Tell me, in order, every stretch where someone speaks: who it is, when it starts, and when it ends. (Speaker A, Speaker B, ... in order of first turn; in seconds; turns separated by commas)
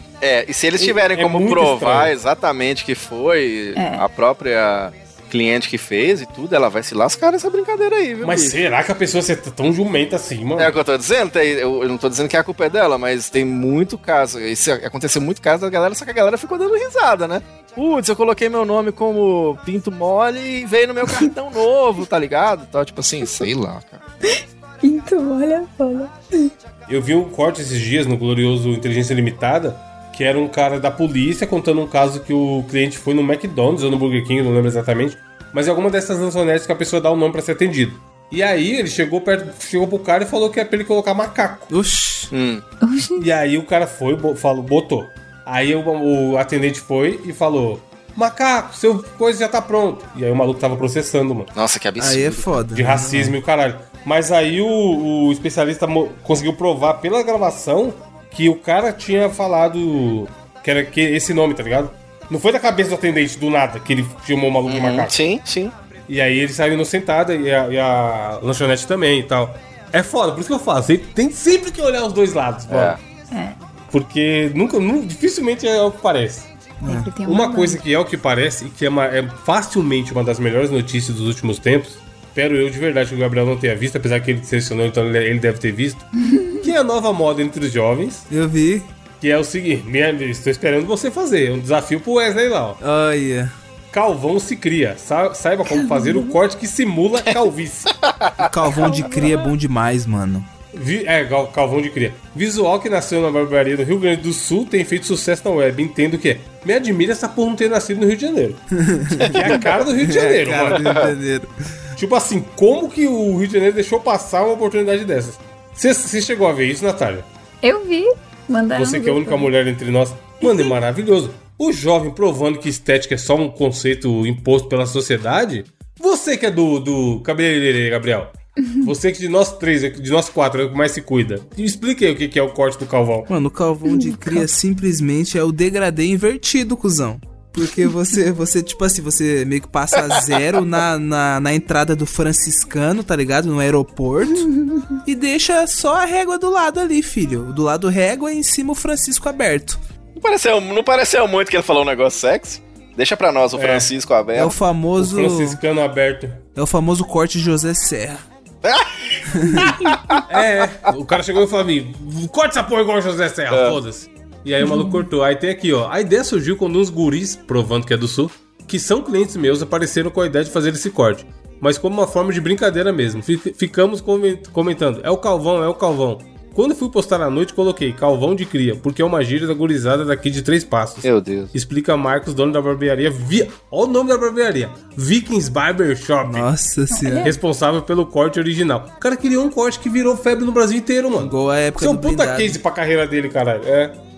Speaker A: 0.2-8.6, Speaker B: 0.8-2.1, Speaker C: 3.8-4.0, Speaker B: 8.2-10.8, Speaker A: 10.6-24.0, Speaker C: 24.8-26.5, Speaker B: 26.9-41.7, Speaker D: 41.7-42.3, Speaker A: 42.3-42.6, Speaker C: 42.8-43.3, Speaker B: 43.2-51.5, Speaker A: 51.5-52.6, Speaker D: 52.0-53.4, Speaker B: 52.7-65.1, Speaker A: 64.7-65.7, Speaker B: 66.1-73.0, Speaker A: 72.7-73.0, Speaker C: 73.3-73.6, Speaker B: 73.9-76.5, Speaker D: 76.8-77.1, Speaker C: 76.8-77.8, Speaker B: 77.2-86.1, Speaker C: 86.2-86.7, Speaker B: 86.6-88.3, Speaker D: 88.3-88.9, Speaker B: 89.2-92.8, Speaker D: 92.8-93.5, Speaker B: 93.9-98.0, Speaker C: 95.8-96.4, Speaker A: 98.0-98.5, Speaker D: 98.4-100.5, Speaker C: 98.8-99.3, Speaker B: 100.7-108.6, Speaker D: 108.7-111.8, Speaker B: 109.2-110.9, Speaker A: 110.8-111.1, Speaker B: 112.0-117.3, Speaker C: 117.6-119.5, Speaker B: 118.7-133.3, Speaker C: 120.4-120.7, Speaker D: 133.3-144.5, Speaker C: 133.9-134.4, Speaker C: 144.3-145.0, Speaker D: 145.0-149.8, Speaker A: 150.2-154.6, Speaker B: 153.5-153.9, Speaker D: 154.3-155.6, Speaker B: 155.0-156.4, Speaker D: 156.6-158.2, Speaker A: 158.6-158.9, Speaker D: 159.3-159.7, Speaker A: 159.5-160.2, Speaker B: 160.3-186.5, Speaker A: 163.5-163.8, Speaker C: 164.6-165.1, Speaker A: 181.0-181.5, Speaker D: 186.2-187.4, Speaker C: 186.9-187.4, Speaker B: 187.2-194.0, Speaker D: 191.2-192.6